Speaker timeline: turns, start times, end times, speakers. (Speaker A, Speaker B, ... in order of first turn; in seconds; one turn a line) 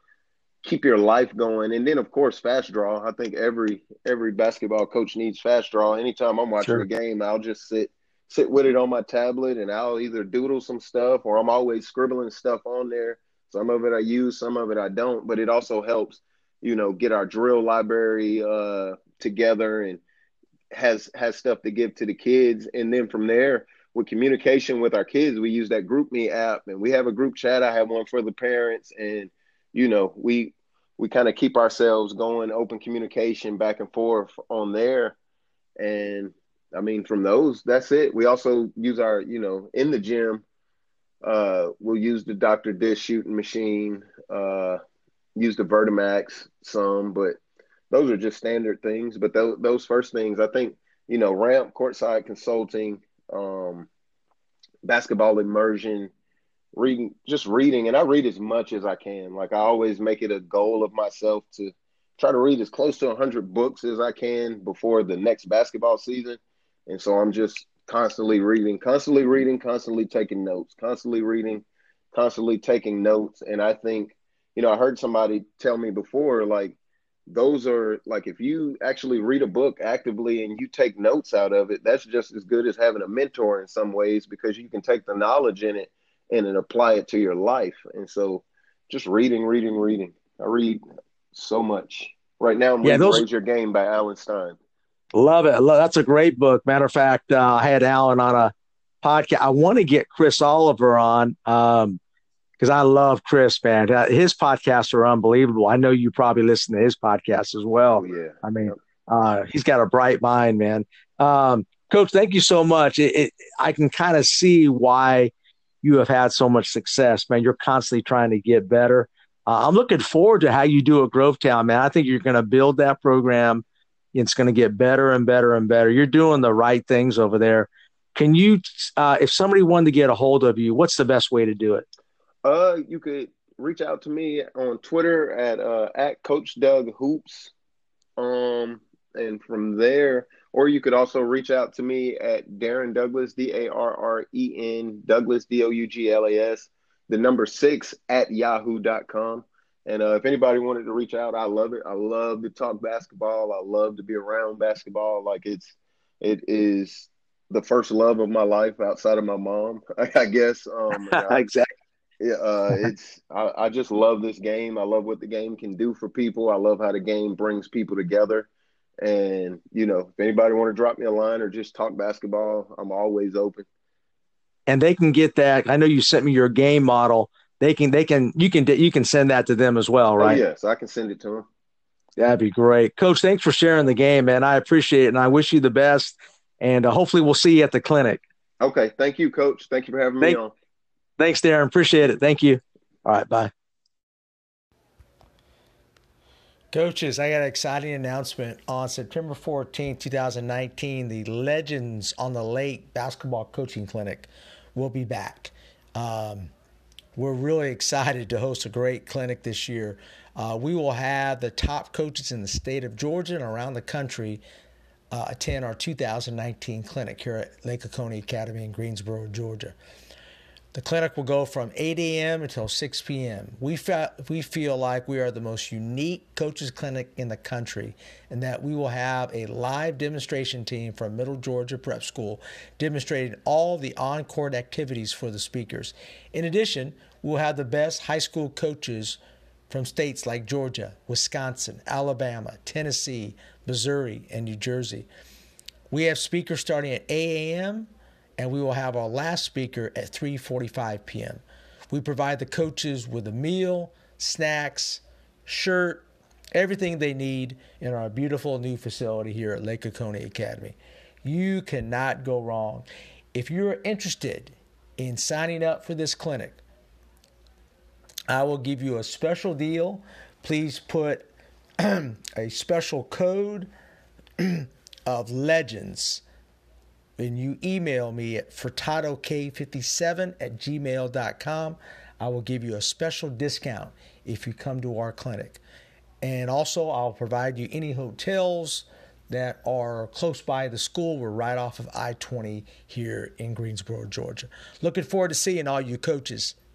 Speaker A: 0.6-20.0
Speaker A: 20.7-35.2
Speaker A: 35.8-40.4
Speaker A: 41.2-44.8
Speaker A: 45.4-47.4
Speaker A: 47.9-53.9
Speaker A: 54.8-56.1
Speaker A: 56.8-76.8
Speaker A: 77.3-90.8
Speaker A: 91.3-94.6
Speaker B: 92.8-93.3
Speaker B: 95.1-102.0
Speaker B: 102.6-115.3
Speaker A: 108.0-108.8
Speaker B: 115.8-131.9
Speaker A: 132.4-137.5
Speaker A: 138.2-161.5
Speaker B: 160.9-161.7
Speaker A: 162.2-168.5
Speaker A: 169.0-173.7
Speaker B: 174.7-180.4
Speaker A: 180.2-181.5
Speaker B: 182.2-188.2
Speaker A: 188.6-190.5
Speaker B: 191.2-193.5
Speaker C: 196.7-206.5
Speaker C: 207.2-214.4
Speaker C: 215.1-219.8
Speaker C: 220.7-239.2
Speaker C: 239.7-245.1
Speaker C: 245.9-266.6
Speaker C: 268.3-271.3
Speaker C: 271.8-273.7
Speaker C: 274.4-276.2
Speaker C: 277.2-285.6
Speaker C: 286.2-296.6